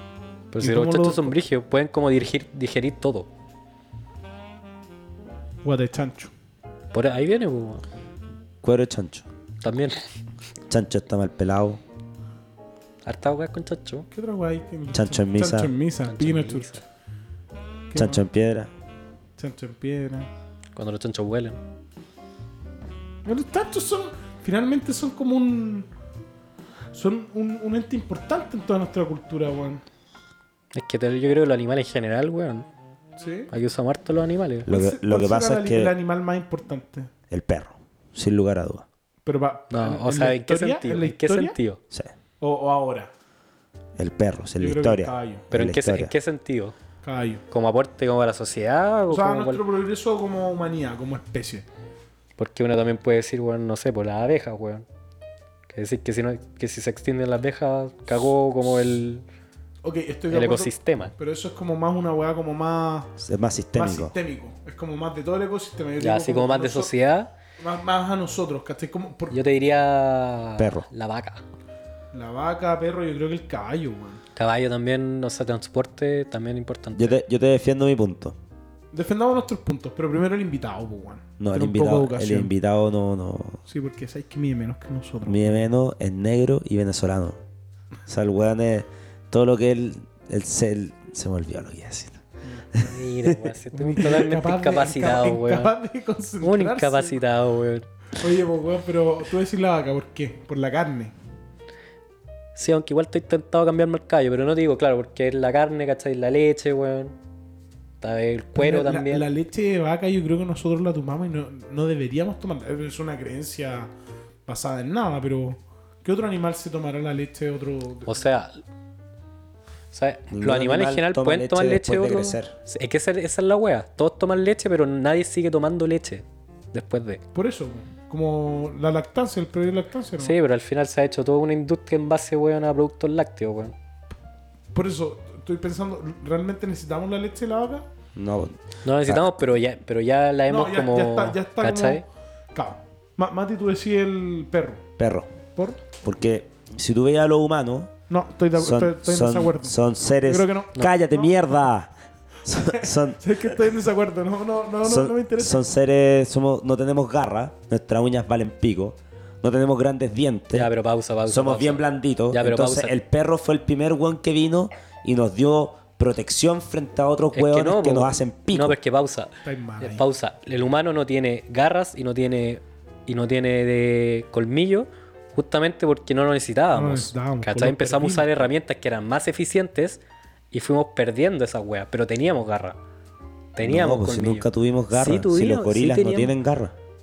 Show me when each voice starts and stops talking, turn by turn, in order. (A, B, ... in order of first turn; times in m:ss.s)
0:00.5-0:03.3 A
0:00.6-0:01.4 B
0:05.6-0:06.3 B
0:06.9-0:07.8 A
0:08.6-0:09.3 C
0:09.6-0:10.0 A
0:10.7-0:11.8 C
0:13.0-0:14.1 A
0:14.1-0:16.8 B
0:14.9-0:15.7 C
0:16.0-0:16.8 A
0:17.9-0:18.2 B
0:18.0-0:18.7 C
0:19.4-0:20.3 B
0:20.8-0:21.6 A
0:23.2-0:25.9 B
0:26.9-0:29.8 B
0:30.7-0:32.7 A
0:33.2-0:33.5 B
0:33.5-0:34.7 A
0:34.7-0:35.9 C
0:34.7-0:37.1 B
0:37.3-0:38.9 C
0:39.2-0:41.6 B
0:39.7-0:41.8 A
0:42.4-0:43.1 B
0:44.0-0:46.1 C
0:44.6-0:45.5 B
0:45.5-0:46.8 A
0:47.0-0:47.4 B
0:47.5-0:49.6 A
0:49.1-0:51.7 B
0:52.4-0:54.8 A
0:55.7-0:59.2 A
0:59.8-1:03.1 B
1:00.3-1:01.1 A
1:03.2-1:04.1 C
1:03.8-1:06.9 B
1:06.0-1:07.3 A
1:07.6-1:09.4 B
1:09.3-1:11.4 A
1:10.6-1:10.9 C
1:12.1-1:14.2 B
1:14.4-1:17.2 A
1:16.9-1:18.4 C
1:18.9-1:22.5 B
1:21.4-1:23.6 C
1:23.7-1:25.6 B
1:25.2-1:27.4 C
1:28.1-1:33.5 C
1:32.4-1:32.8 B
1:32.8-1:35.7 A
1:33.7-1:37.2 B
1:36.4-1:37.9 A
1:38.2-1:41.1 B
1:42.6-1:47.2 A
1:48.0-1:49.3 A
1:48.6-1:53.9 B
1:54.5-1:58.1 B
1:58.1-1:58.6 A
1:59.9-2:07.2 A
2:00.3-2:02.5 C
2:07.3-2:10.4 B
2:10.2-2:13.8 A
2:14.7-2:17.9 B
2:18.2-2:19.4 C
2:18.8-2:22.0 A
2:20.5-2:24.8 B
2:25.0-2:25.3 C
2:25.6-2:25.8 B
2:26.0-2:27.9 C
2:28.1-2:31.4 B
2:28.6-2:31.9 C
2:32.4-2:33.2 C
2:32.7-2:35.6 B
2:34.8-2:40.7 C
2:40.5-2:43.0 A
2:41.3-2:48.8 C
2:47.3-3:02.8 A
2:49.4-2:50.1 B
2:56.7-2:58.4 B
3:03.6-3:06.4 A
3:03.6-3:06.8 C